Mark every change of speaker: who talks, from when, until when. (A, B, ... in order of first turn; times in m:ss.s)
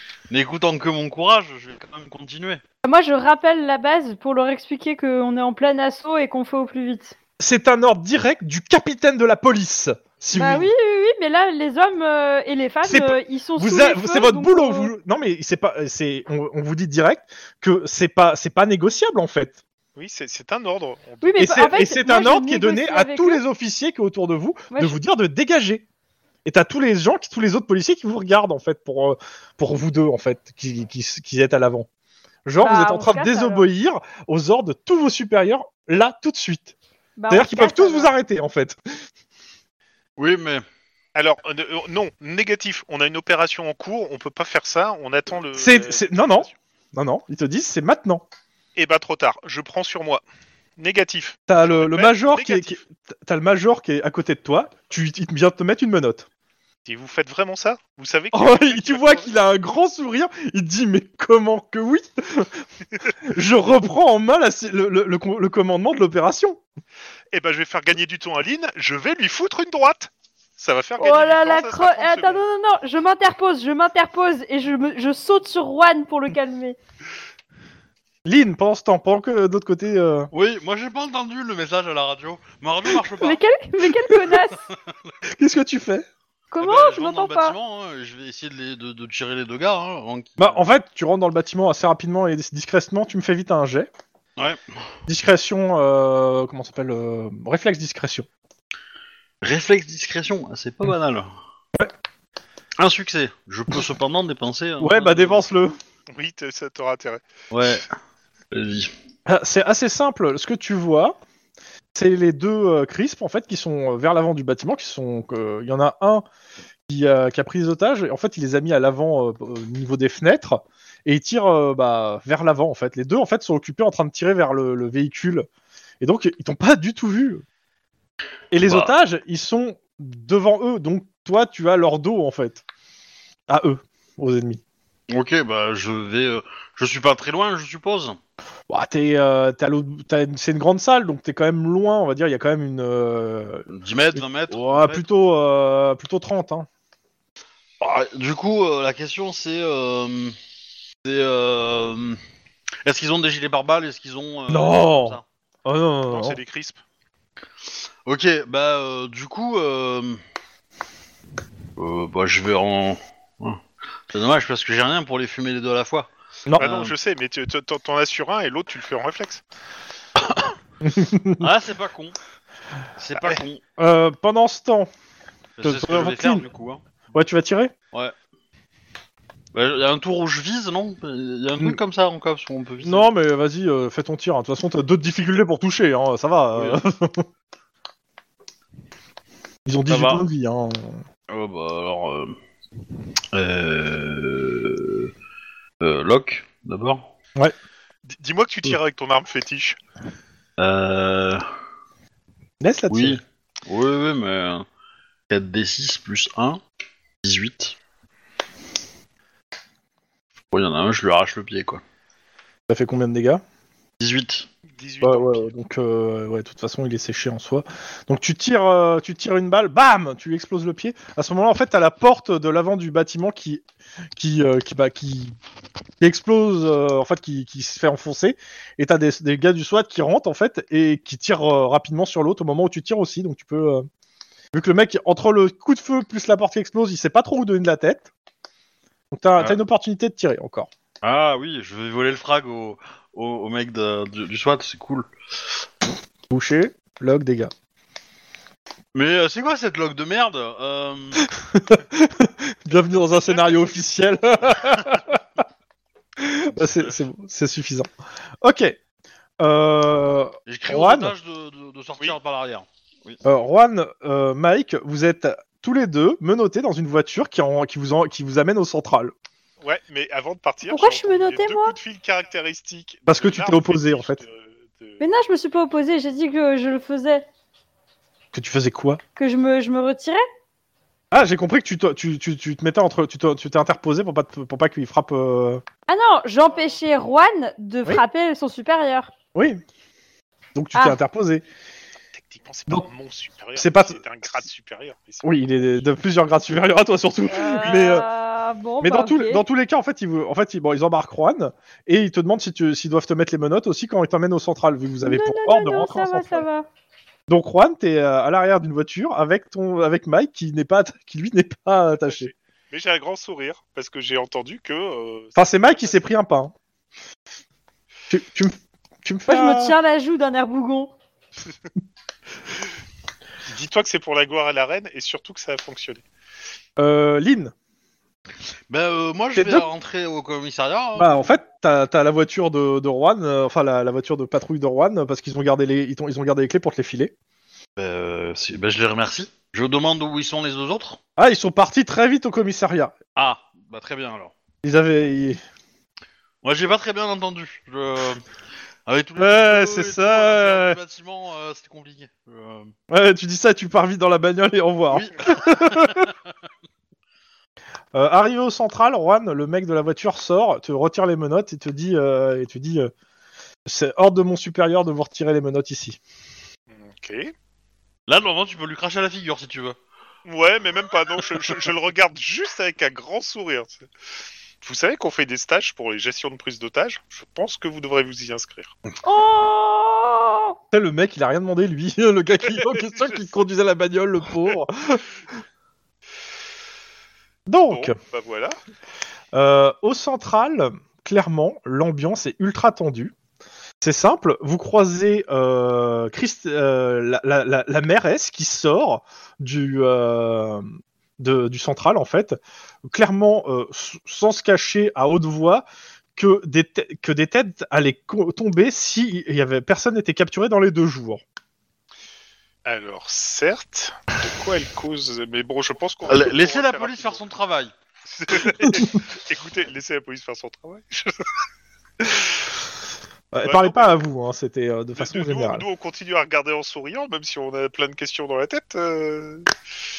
0:00.3-0:02.6 A
0:02.8-0:07.1 B
0:07.4-0:10.7 C
0:10.3-0:14.9 B
0:12.8-0:19.6 C
0:20.0-0:21.7 D
0:21.2-0:23.4 B
0:21.4-0:25.8 C
0:24.7-0:25.0 B
0:26.4-0:31.9 C
0:32.4-0:36.7 C
0:32.6-0:33.7 B
0:37.2-0:38.1 B
0:37.3-0:38.8 C
0:40.2-0:40.6 A
0:41.1-0:46.5 D
0:45.5-0:48.2 C
0:48.8-0:50.2 D
0:50.8-0:52.8 D
0:51.5-0:56.3 C
0:56.8-0:59.3 D
0:58.3-1:02.6 C
1:03.2-1:06.6 C
1:07.3-1:12.4 D
1:11.0-1:16.8 B
1:18.2-1:20.3 C
1:20.3-1:23.4 A
1:23.1-1:24.6 B
1:24.3-1:25.1 A
1:25.3-1:26.0 C
1:26.5-1:27.5 B
1:26.6-1:30.7 A
1:30.4-1:33.9 C
1:35.1-1:38.3 C
1:39.4-1:41.3 A
1:42.8-1:45.4 A
1:44.8-1:45.7 C
1:46.1-1:47.2 D
1:47.5-1:47.9 A
1:48.5-1:48.9 A
1:49.3-1:51.2 C
1:51.9-1:56.2 C
1:56.9-2:05.5 C
2:06.0-2:07.4 C
2:08.5-2:12.6 C
2:08.6-2:08.9 A
2:13.5-2:14.6 C
2:15.1-2:18.2 A
2:18.7-2:26.7 C
2:23.7-2:25.0 A
2:27.8-2:30.4 A
2:31.0-2:32.2 A
2:32.8-2:35.2 A
2:34.5-2:36.4 C
2:36.1-2:36.8 D
2:38.0-2:40.2 A
2:41.8-2:46.9 A
2:46.6-2:49.4 D
2:50.2-2:50.5 A
2:50.8-2:51.4 C
2:51.4-2:52.2 A
2:53.0-2:53.6 A
2:53.8-2:54.9 C
2:55.6-2:56.8 A
2:55.6-2:56.4 C
2:57.1-2:57.7 C
2:59.5-3:03.1 A
3:02.8-3:07.3 C
3:06.5-3:06.8 A
3:09.6-3:11.0 C
3:09.9-3:10.2 A
3:11.3-3:12.4 A
3:13.3-3:15.1 A
3:15.8-3:17.0 A
3:18.1-3:19.8 D
3:20.6-3:21.4 A
3:22.6-3:23.2 C
3:22.9-3:24.6 A
3:25.3-3:26.6 A
3:27.2-3:27.8 A
3:30.5-3:31.8 A
3:32.7-3:33.4 C
3:34.0-3:34.5 A
3:34.8-3:35.5 D
3:35.0-3:43.6 C
3:44.2-3:45.4 C
3:46.0-3:53.9 C
3:54.5-3:58.1 C
3:59.1-4:00.7 C
4:01.0-4:05.6 A
4:06.3-4:07.5 C
4:08.9-4:11.2 A
4:11.2-4:15.2 C
4:13.0-4:13.8 D
4:16.2-4:17.9 C
4:18.4-4:18.8 C
4:19.4-4:21.1 C
4:20.5-4:23.2 A
4:23.2-4:29.1 C
4:29.6-4:35.0 D
4:30.7-4:31.8 B
4:33.1-4:34.2 C
4:35.0-4:37.2 B
4:38.3-4:39.0 C
4:39.2-4:40.2 B
4:41.1-4:45.6 C
4:45.9-4:49.1 B
4:49.3-4:49.6 C
4:50.5-4:51.4 C
4:52.1-4:55.8 D
4:53.6-4:54.0 C
4:55.2-4:58.0 C
4:57.3-4:59.4 B
4:58.8-5:06.4 C
5:05.0-5:06.7 B
5:07.3-5:12.3 C
5:12.0-5:16.0 D
5:15.4-5:16.5 C
5:18.1-5:19.7 C
5:19.3-5:20.9 B
5:23.5-5:26.0 D
5:26.8-5:27.5 C
5:28.7-5:31.3 A
5:29.3-5:29.6 C
5:31.0-5:37.1 C
5:37.8-5:41.0 A
5:41.2-5:42.9 C
5:43.2-5:44.3 A
5:44.6-5:45.4 C
5:46.4-5:48.2 A
5:48.8-5:52.7 A
5:49.2-5:50.8 C
5:52.9-5:56.1 C
5:54.9-5:56.1 A
5:57.9-6:02.9 C
6:03.6-6:06.0 C
6:06.7-6:07.3 D
6:08.1-6:09.8 A
6:10.2-6:13.8 D
6:14.6-6:18.7 D
6:19.0-6:20.6 B
6:20.7-6:25.0 C
6:22.5-6:23.2 D
6:27.5-6:27.9 C
6:27.7-6:28.6 D
6:29.3-6:33.1 C
6:33.8-6:51.2 C
6:52.6-6:57.2 D
6:56.1-6:57.7 A
6:58.1-7:01.2 D
7:03.3-7:05.6 C
7:03.4-7:04.0 D
7:05.0-7:09.5 D